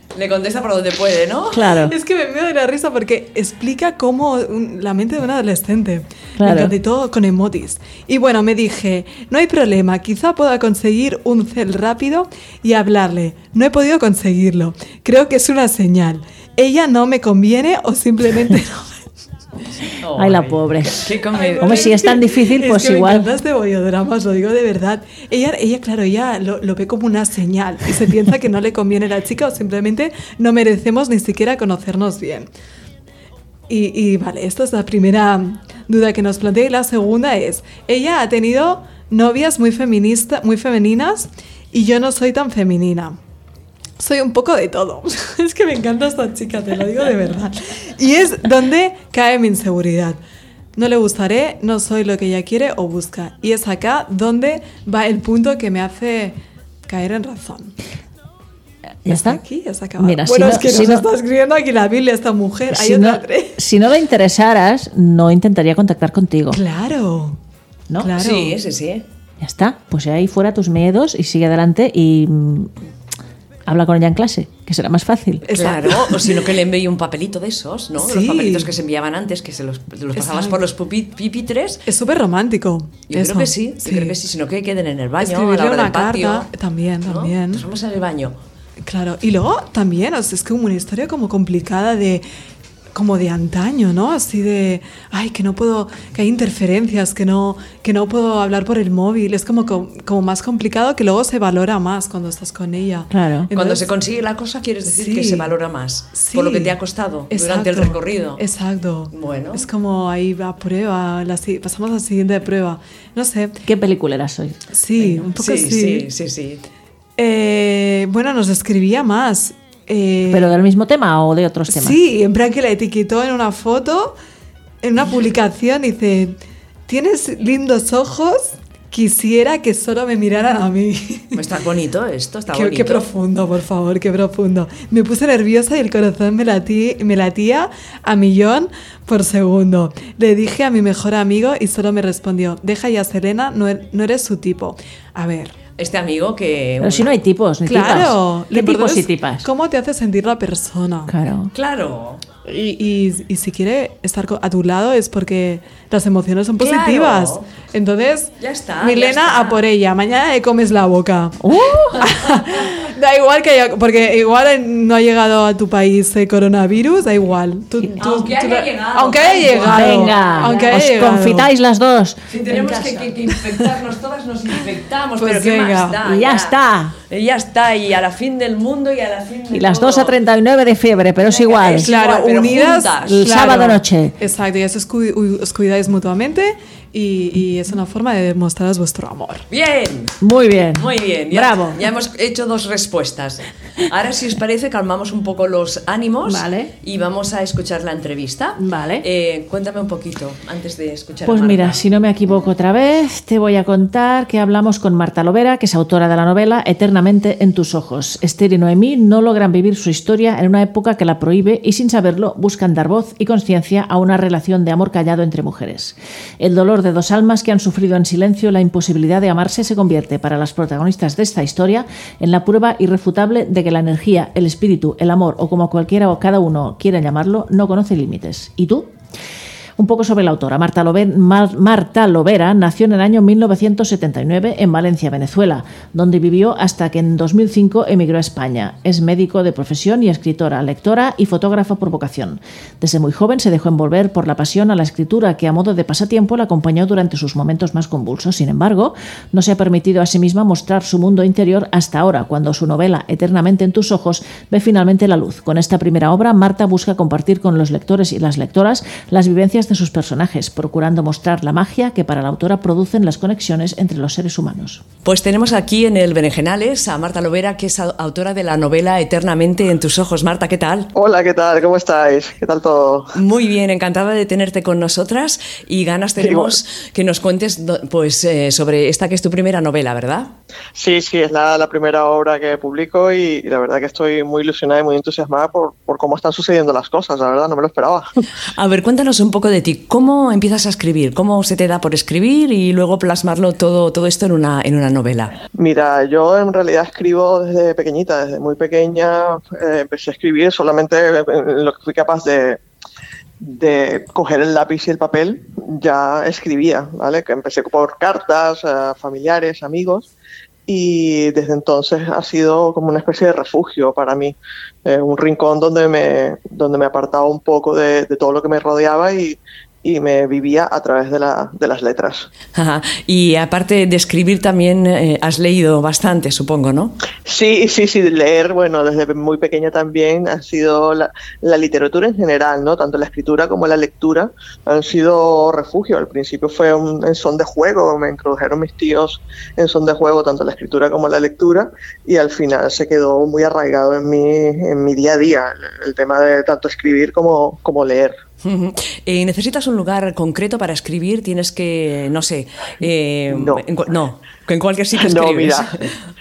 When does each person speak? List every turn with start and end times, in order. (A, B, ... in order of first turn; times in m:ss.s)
0:00.1-0:01.7 A
0:01.5-0:01.9 B
0:01.8-0:19.0 C
0:06.4-0:06.7 B
0:20.0-0:21.9 A
0:20.1-0:23.3 B
0:21.3-0:32.5 C
0:33.7-0:43.2 C
0:44.0-0:50.2 C
0:50.8-0:57.7 C
0:59.0-0:59.4 B
0:59.1-1:03.6 C
1:00.0-1:01.0 B
1:02.7-1:06.6 B
1:06.5-1:07.4 C
1:08.0-1:08.6 C
1:08.2-1:09.0 A
1:09.4-1:12.7 B
1:13.6-1:15.4 B
1:15.4-1:16.4 C
1:15.5-1:21.8 A
1:18.0-1:18.7 C
1:20.2-1:20.6 C
1:21.8-1:24.2 C
1:23.1-1:26.5 A
1:25.2-1:27.6 C
1:27.0-1:28.4 A
1:28.8-1:32.2 C
1:32.9-1:43.8 C
1:43.1-1:43.5 B
1:43.5-1:48.4 A
1:44.9-1:45.5 C
1:46.1-1:46.8 C
1:47.3-1:53.6 C
1:49.1-1:49.6 A
1:53.6-1:54.6 B
1:54.7-1:56.1 C
1:55.0-1:56.6 A
1:57.2-2:00.5 C
2:00.3-2:02.0 B
2:01.7-2:04.2 C
2:04.8-2:11.4 C
2:11.3-2:13.0 A
2:12.5-2:25.6 C
2:25.8-2:27.1 A
2:26.8-2:29.4 B
2:27.6-2:31.1 C
2:31.1-2:31.5 B
2:31.5-2:32.2 A
2:32.4-2:41.4 C
2:36.6-2:37.5 A
2:38.4-2:39.6 A
2:41.4-2:42.0 B
2:42.0-2:51.5 C
2:48.0-2:50.8 A
2:49.6-2:53.7 B
2:52.3-3:00.2 A
2:55.2-2:56.0 C
2:56.0-2:56.9 B
2:59.5-3:01.9 B
3:01.2-3:03.8 A
3:01.8-3:09.4 C
3:03.0-3:04.1 B
3:09.5-3:10.2 A
3:10.2-3:11.8 B
3:10.8-3:21.8 A
3:16.2-3:16.7 B
3:18.6-3:19.0 B
3:21.2-3:48.9 B
3:49.8-4:24.8 B
4:25.0-4:30.9 A
4:30.9-4:33.2 D
4:33.1-4:40.3 A
4:36.2-4:36.6 D
4:40.7-4:48.1 D
4:48.5-4:55.4 A
4:55.5-5:02.6 D
5:03.4-5:10.1 D
5:10.7-5:22.3 D
5:22.5-5:27.0 A
5:27.2-5:48.2 D
5:48.4-5:55.9 A
5:53.3-5:53.6 D
5:54.9-5:55.7 D